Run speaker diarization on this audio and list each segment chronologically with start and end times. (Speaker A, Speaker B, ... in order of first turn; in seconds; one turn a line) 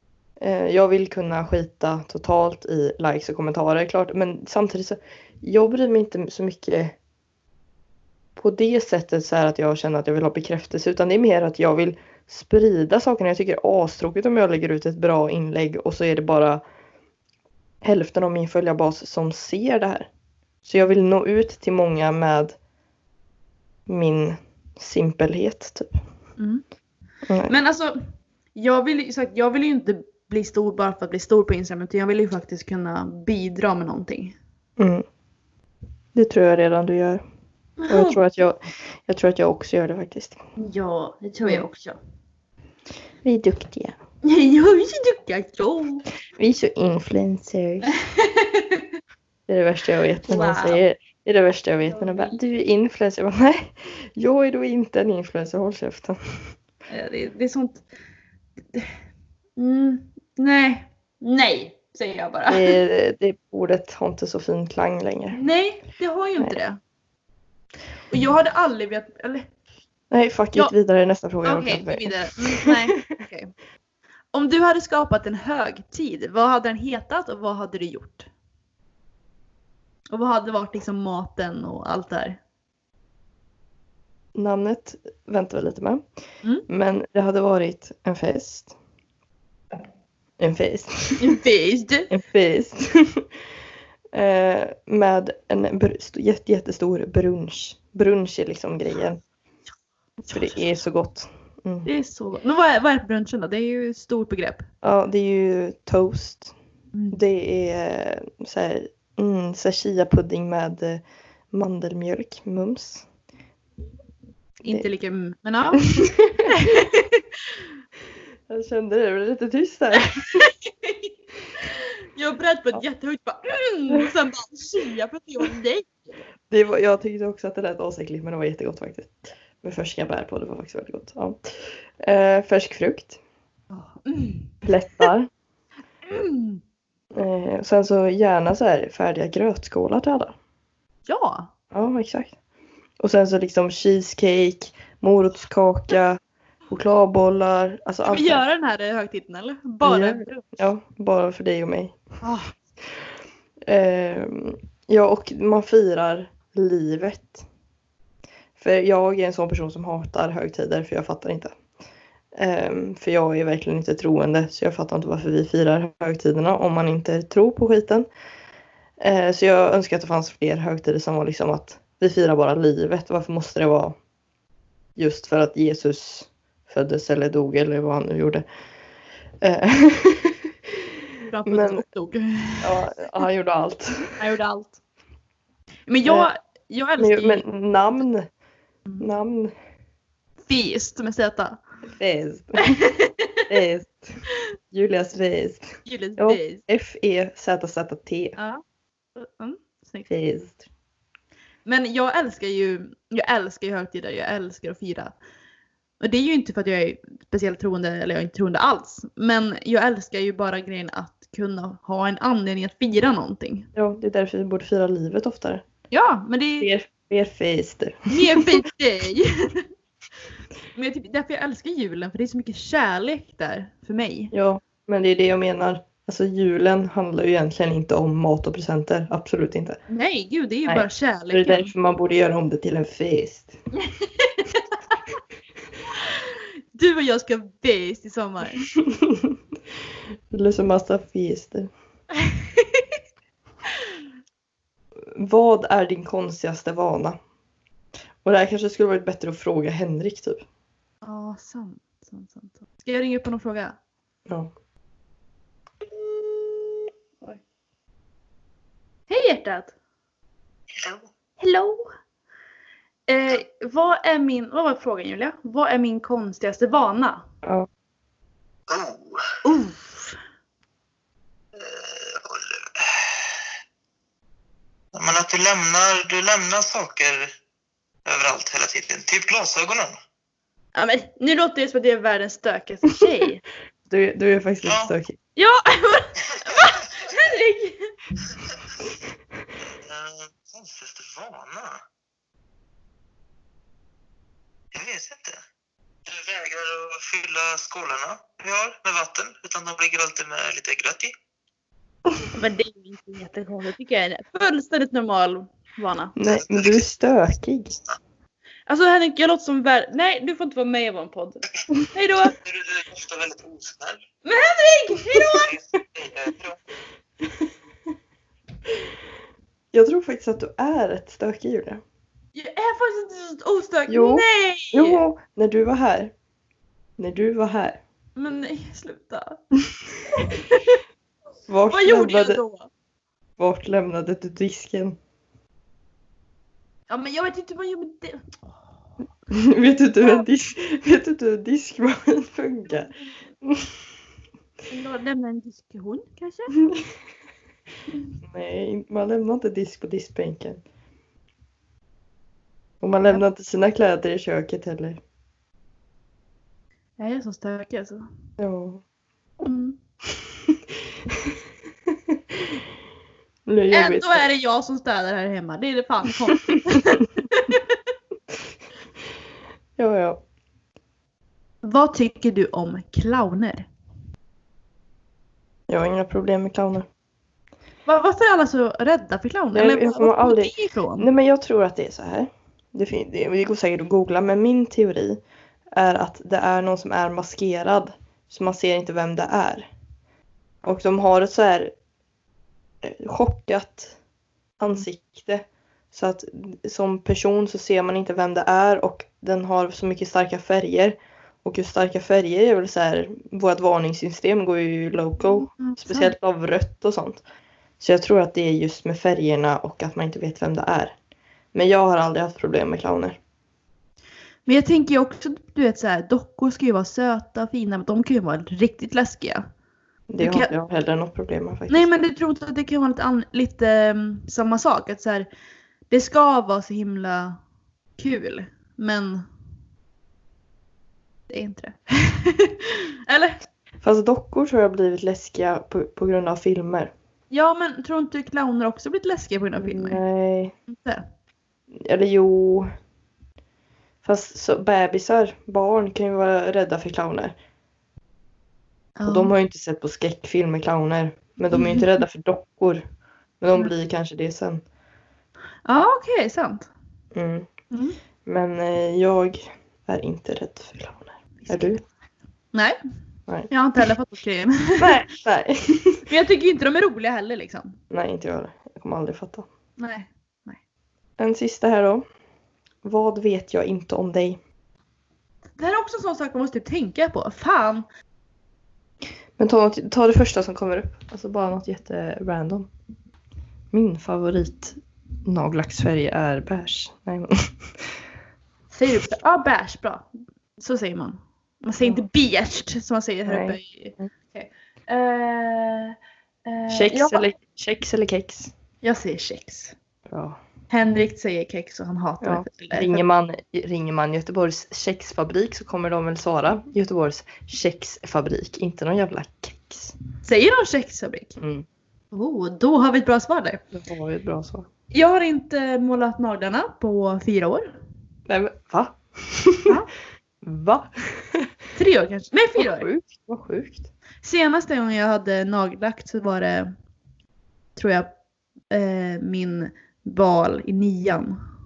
Speaker A: 0.4-7.0
Speaker A: 8.3-16.6
Speaker A: 17.8-20.1
Speaker A: 20.6-22.6
Speaker A: 23.9-26.0
Speaker B: 26.4-26.6
Speaker A: 27.3-27.5
Speaker B: 27.5-28.0
Speaker B: 28.5-34.4
Speaker A: 34.8-35.0
Speaker A: 36.1-37.2
Speaker B: 37.8-38.2
Speaker A: 37.9-40.4
Speaker B: 40.6-42.0
Speaker A: 43.2-44.0
Speaker B: 44.2-46.0
Speaker A: 46.4-47.9
Speaker B: 47.9-48.8
Speaker A: 49.5-56.2
Speaker B: 50.3-50.8
Speaker B: 51.8-52.4
Speaker B: 56.9-57.8
Speaker B: 59.6-62.8
Speaker A: 62.5-65.4
Speaker B: 65.3-66.8
Speaker B: 68.1-69.5
Speaker A: 70.1-73.0
Speaker B: 71.4-73.5
Speaker B: 74.3-78.3
Speaker B: 80.1-82.4
Speaker A: 84.3-86.0
Speaker A: 86.7-88.7
Speaker A: 90.4-91.4
Speaker B: 91.2-92.1
Speaker A: 92.1-93.3
Speaker A: 94.1-99.2
Speaker B: 100.3-100.6
Speaker A: 100.3-101.9
Speaker B: 101.8-104.7
Speaker A: 104.8-106.5
Speaker B: 106.9-107.2
Speaker A: 107.1-113.1
Speaker B: 114.6-117.2
Speaker A: 116.0-116.5
Speaker A: 118.5-120.4
Speaker B: 120.3-126.2
Speaker A: 126.5-133.2
Speaker B: 133.7-135.1
Speaker A: 134.6-135.3
Speaker B: 136.1-136.6
Speaker A: 137.1-140.3
Speaker B: 141.1-141.5
Speaker A: 141.7-142.3
Speaker A: 143.0-148.4
Speaker B: 148.1-150.5
Speaker A: 149.8-152.0
Speaker B: 152.2-152.5
Speaker A: 153.6-157.4
Speaker A: 158.6-161.6
Speaker A: 162.3-168.1
Speaker A: 169.0-173.9
Speaker A: 175.0-178.4
Speaker A: 179.4-180.5
Speaker B: 181.3-182.8
Speaker A: 181.4-181.8
Speaker A: 182.6-184.1
Speaker B: 184.1-184.8
Speaker B: 185.9-187.4
Speaker A: 187.0-188.3
Speaker A: 189.0-189.5
Speaker B: 190.4-191.6
Speaker A: 191.9-192.8
Speaker B: 192.7-193.3
Speaker A: 193.5-198.3
Speaker B: 195.8-196.6
Speaker B: 198.4-198.6
Speaker B: 199.2-200.1
Speaker A: 200.1-200.6
Speaker B: 201.6-205.1
Speaker B: 206.0-213.7
Speaker A: 213.7-215.6
Speaker B: 215.9-216.7
Speaker A: 216.6-218.6
Speaker B: 218.1-219.6
Speaker B: 220.7-224.3
Speaker A: 224.3-229.8
Speaker B: 229.9-231.7
Speaker A: 230.7-233.6
Speaker B: 233.7-234.9
Speaker B: 236.0-238.7
Speaker A: 238.7-239.3
Speaker A: 240.3-241.7
Speaker B: 242.2-242.8
Speaker A: 245.1-247.2
Speaker A: 248.2-250.4
Speaker B: 251.0-253.8
Speaker A: 254.3-254.5
Speaker B: 259.1-259.7
Speaker B: 261.4-261.9
Speaker B: 263.1-267.2
Speaker C: 268.7-269.2
Speaker B: 269.4-270.2
Speaker C: 271.6-273.4
Speaker C: 274.9-277.2
Speaker C: 278.1-279.9
Speaker B: 280.7-283.4
Speaker A: 283.9-285.1
Speaker C: 284.6-284.9
Speaker B: 285.4-287.9
Speaker C: 289.7-291.8
Speaker C: 294.7-295.4
Speaker C: 296.1-301.1
Speaker B: 302.3-306.1
Speaker A: 306.2-307.8
Speaker C: 306.3-306.9
Speaker B: 308.7-311.4
Speaker B: 311.9-312.3
Speaker C: 312.3-314.0
Speaker B: 314.2-315.5
Speaker C: 315.5-316.6
Speaker A: 319.7-321.8
Speaker B: 322.3-325.0
Speaker A: 323.9-326.1
Speaker A: 327.0-327.8
Speaker B: 328.1-329.4
Speaker B: 330.1-330.8
Speaker A: 331.5-332.4
Speaker B: 331.7-332.7
Speaker A: 333.4-335.0
Speaker B: 336.9-338.6
Speaker A: 339.3-343.7
Speaker B: 342.7-343.1
Speaker B: 344.7-346.6
Speaker A: 348.2-350.6
Speaker A: 352.8-355.0
Speaker B: 357.0-358.1
Speaker A: 358.4-358.8
Speaker B: 359.4-359.8
Speaker A: 362.1-362.4
Speaker A: 363.4-364.2
Speaker B: 363.7-367.7
Speaker A: 369.8-370.2
Speaker B: 371.6-373.7
Speaker A: 375.7-376.9
Speaker B: 377.9-381.1
Speaker A: 379.5-385.2
Speaker A: 385.7-389.7
Speaker A: 390.6-391.7
Speaker A: 392.8-393.9
Speaker A: 394.6-407.2
Speaker B: 405.2-406.1
Speaker A: 407.8-410.9
Speaker A: 411.5-413.2
Speaker B: 414.4-419.4
Speaker A: 420.1-421.9
Speaker B: 420.2-420.5
Speaker B: 421.7-425.3
Speaker B: 425.9-427.4
Speaker B: 428.0-429.2
Speaker B: 431.3-433.4
Speaker A: 433.8-436.9
Speaker B: 437.3-440.0
Speaker A: 439.6-440.5
Speaker B: 440.7-441.0
Speaker A: 441.7-442.7
Speaker A: 444.0-447.3
Speaker B: 449.0-449.3
Speaker A: 449.0-452.8
Speaker B: 451.5-451.9
Speaker A: 453.4-454.6
Speaker B: 455.6-456.7
Speaker A: 457.1-457.5
Speaker B: 457.7-458.0
Speaker A: 458.2-461.8
Speaker B: 461.4-461.8
Speaker B: 462.5-462.8
Speaker B: 463.5-465.1
Speaker A: 464.8-466.0
Speaker B: 466.1-467.8
Speaker A: 467.9-469.4
Speaker B: 469.8-470.6
Speaker A: 471.2-472.0
Speaker A: 472.8-474.4
Speaker B: 475.6-477.9
Speaker A: 479.4-482.7
Speaker A: 483.7-488.0
Speaker B: 488.7-497.3
Speaker A: 493.2-494.1
Speaker A: 496.7-498.5
Speaker B: 498.8-499.7
Speaker A: 500.1-500.4
Speaker B: 500.7-503.0
Speaker A: 502.2-509.9
Speaker B: 510.2-511.4
Speaker A: 511.4-511.6
Speaker B: 512.1-513.6
Speaker A: 513.7-514.7
Speaker B: 514.9-517.7
Speaker A: 518.3-519.7
Speaker A: 520.4-521.5
Speaker B: 521.7-522.9
Speaker A: 522.5-523.9
Speaker B: 524.2-526.7
Speaker B: 527.8-528.1
Speaker B: 528.7-531.4